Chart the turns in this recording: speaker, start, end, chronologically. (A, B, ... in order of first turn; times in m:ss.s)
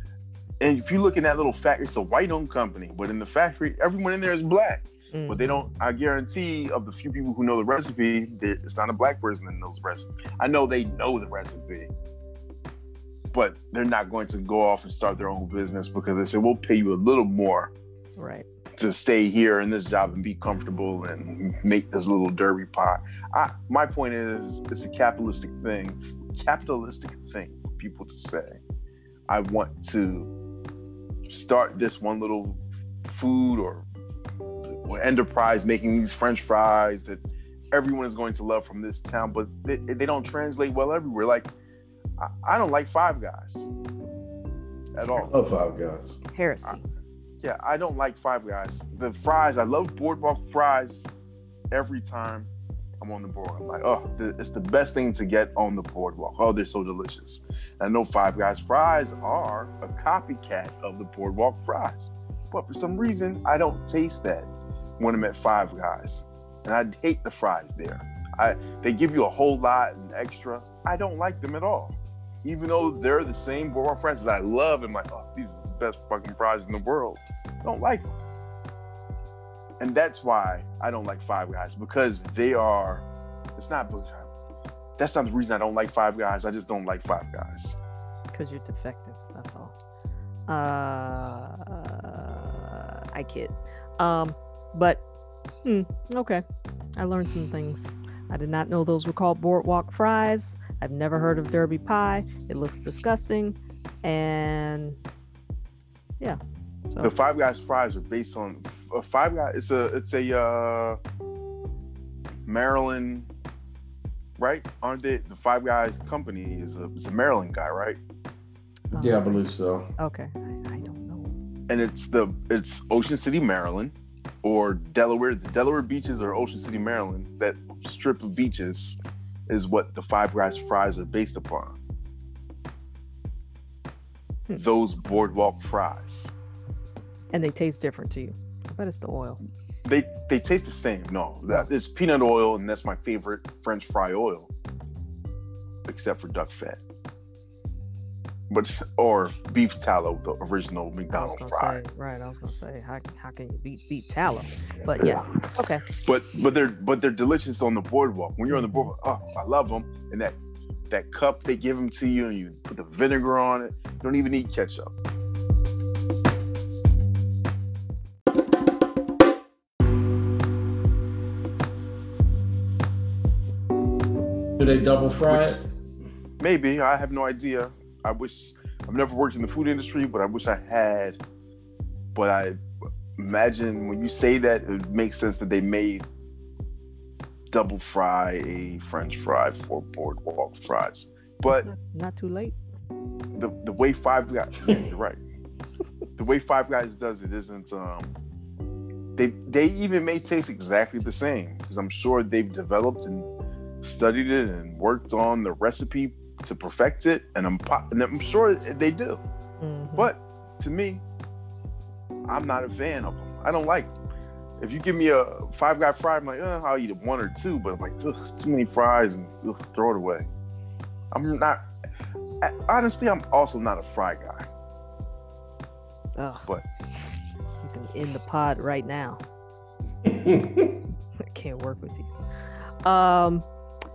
0:00.6-0:11.9 A
0:05.1-0:05.6 B
0:13.3-0:17.7 A
0:18.2-0:18.5 B
0:18.8-0:28.6 A
0:29.3-0:30.3 A
0:31.3-0:33.8 A
0:34.7-0:37.2 A
0:37.7-0:41.5 A
0:42.2-0:43.7 A
0:45.0-0:45.3 A
0:45.2-0:46.2 C
0:46.3-0:46.8 B
0:47.4-0:51.1 A
0:51.7-0:52.5 A
0:53.0-1:18.1 A
1:19.8-1:23.0 A
1:23.6-1:24.3 A
1:25.0-1:27.8 A
1:28.3-1:29.7 B
1:30.5-1:35.0 B
1:35.6-1:36.4 B
1:37.0-1:45.0 B
1:47.0-1:51.0 A
1:52.5-1:53.3 A
1:54.4-1:58.0 A
1:58.9-1:59.9 C
1:58.9-1:59.4 B
2:00.0-2:01.3 B
2:01.7-2:09.0 A
2:09.5-2:11.8 A
2:14.6-2:16.3 A
2:17.3-2:19.4 B
2:19.8-2:24.5 A
2:25.9-2:26.8 A
2:28.5-2:31.8 A
2:31.1-2:35.8 B
2:34.8-2:40.4 A
2:38.5-2:38.9 B
2:40.9-2:44.9 A
2:54.6-2:55.7 C
2:55.3-2:55.6 A
2:56.4-3:01.2 A
3:02.2-3:02.6 A
3:03.2-3:06.0 A
3:07.5-3:11.7 A
3:11.5-3:12.6 B
3:13.4-3:15.2 A
3:16.2-3:18.1 A
3:19.2-3:23.3 A
3:23.8-3:29.2 A
3:29.6-3:30.1 B
3:30.0-3:31.0 A
3:32.3-3:33.9 A
3:34.6-3:40.3 A
3:41.1-3:41.6 A
3:42.4-3:44.5 A
3:46.2-3:46.5 B
3:47.6-3:49.2 B
3:50.0-3:50.8 C
3:51.2-3:52.1 B
3:52.8-3:53.5 B